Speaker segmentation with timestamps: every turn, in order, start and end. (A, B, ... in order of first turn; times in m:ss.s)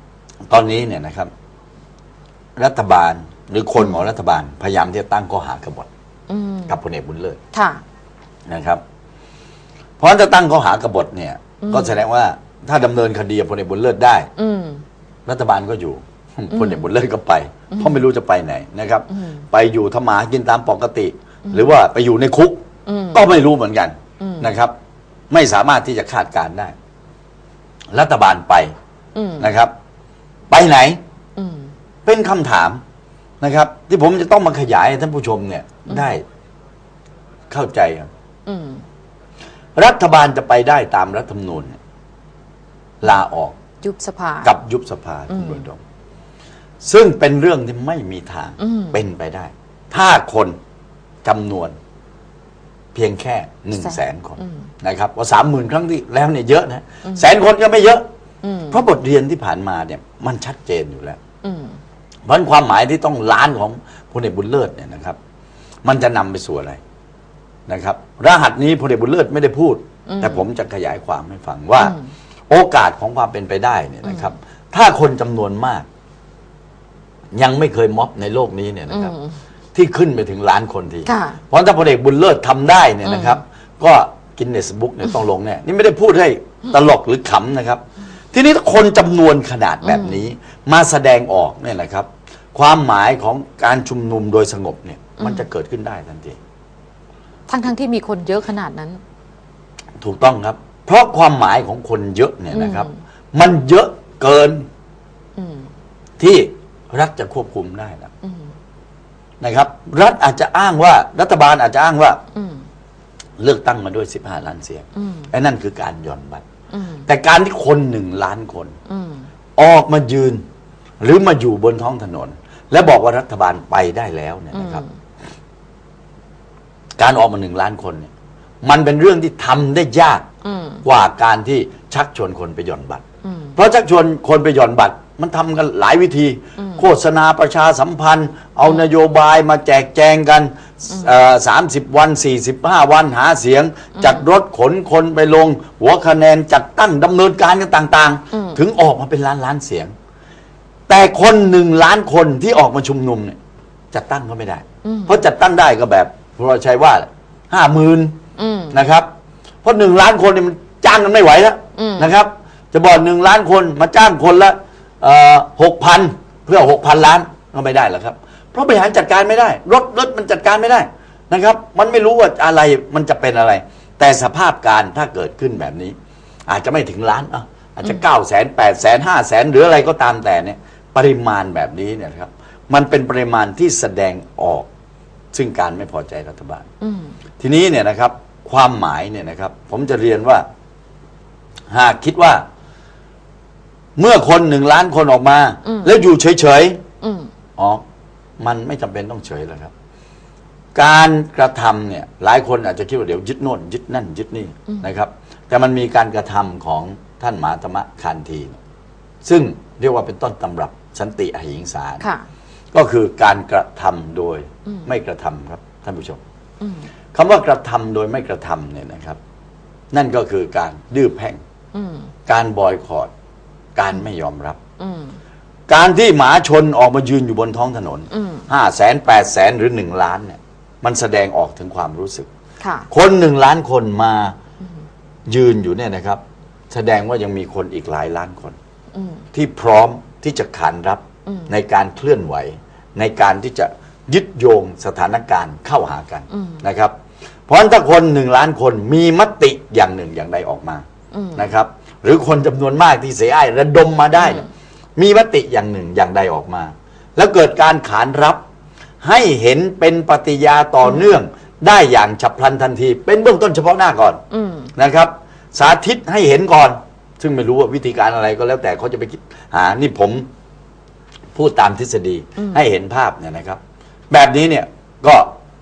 0:00.5-0:01.3 A
0:02.6-0:05.9 A
0:03.8-0:04.0 B
0:06.3-0:06.8 B
0:06.7-0:07.4 A
0:07.5-0:07.8 B
0:08.5-0:08.8 A
0:10.0-0:14.3 A
0:11.6-0:12.0 B
0:14.4-0:14.8 B
0:15.3-0:24.8 A
0:16.5-0:16.9 B
0:22.9-0:23.2 B
0:24.2-0:24.5 B
0:25.3-0:26.7 A
0:27.9-0:28.7 A
0:29.2-0:29.5 B
0:29.4-0:29.7 A
0:30.5-0:31.0 A
0:31.4-0:31.7 B
0:32.0-0:32.8 A
0:33.4-0:36.2 A
0:35.9-0:36.1 B
0:37.5-0:38.1 A
0:38.5-0:38.8 B
0:39.8-0:41.8 A
0:43.0-0:43.6 A
0:43.8-0:44.5 B
0:44.4-0:45.8 A
0:45.3-0:45.6 B
0:46.8-0:50.6 A
0:48.6-0:49.0 B
0:51.2-0:51.8 A
0:52.9-0:58.0 A
0:53.7-0:54.6 B
0:58.4-0:58.8 B
0:58.7-1:01.2 A
1:01.4-1:01.8 B
1:02.3-1:05.2 A
1:05.8-1:06.8 A
1:07.7-1:12.0 A
1:10.1-1:10.4 B
1:11.8-1:12.1 B
1:12.5-1:15.9 A
1:17.3-1:19.1 A
1:18.9-1:19.4 B
1:19.7-1:27.8 A
1:21.1-1:21.4 B
1:23.0-1:23.4 B
1:28.3-1:36.4 A
1:29.8-1:30.2 B
1:35.2-1:35.5 B
1:37.5-1:39.0 B
1:40.0-1:44.7 A
1:42.5-1:43.0 B
1:45.4-1:45.7 B
1:46.2-1:48.1 A
1:48.2-1:48.5 B
1:49.4-1:52.2 A
1:52.3-1:52.7 B
1:53.4-1:56.4 A
1:55.0-1:55.3 B
1:56.7-1:57.0 B
1:57.1-1:58.8 A
1:58.9-1:59.3 B
1:59.6-2:00.4 A
2:01.0-2:04.8 A
2:04.5-2:04.9 B
2:07.0-2:08.1 A
2:08.6-2:10.3 A
2:10.4-2:10.8 B
2:10.8-2:13.0 A
2:13.2-2:13.6 B
2:13.6-2:29.9 A
2:16.6-2:16.9 B
2:24.0-2:24.2 B
2:28.3-2:28.6 B
2:30.9-2:33.4 A
2:33.9-2:38.1 A
2:34.8-2:35.2 B
2:38.4-2:38.8 B
2:38.7-2:39.1 A
2:39.6-2:56.0 A
2:41.8-2:42.1 B
2:56.5-3:04.7 A
3:05.3-3:06.7 A
3:06.8-3:07.2 B
3:07.4-3:10.4 A
3:11.7-3:12.4 A
3:14.0-3:16.8 A
3:15.6-3:15.9 B
3:17.0-3:17.3 B
3:17.6-3:17.8 A
3:18.4-3:19.7 A
3:20.8-3:28.6 A
3:29.2-3:32.0 A
3:32.0-3:32.3 B
3:32.7-3:36.2 A
3:36.6-3:36.9 B
3:37.1-3:39.2 A
3:39.9-3:41.4 A
3:41.7-3:42.1 B
3:42.3-3:43.1 A
3:43.8-3:44.6 A
3:44.8-3:45.2 B
3:45.7-3:52.3 A
3:48.1-3:48.5 B
3:52.6-3:52.9 B
3:52.9-3:54.4 A
3:55.3-3:58.6 A
3:58.9-3:59.2 B
3:59.3-4:06.9 A
4:01.3-4:01.5 B
4:06.3-4:06.6 B
4:07.5-4:10.8 A
4:11.1-4:11.5 B
4:11.4-4:18.4 A
4:19.0-4:24.2 A
4:20.8-4:21.2 B
4:24.3-4:24.7 B
4:24.8-4:30.3 A
4:31.4-4:35.3 A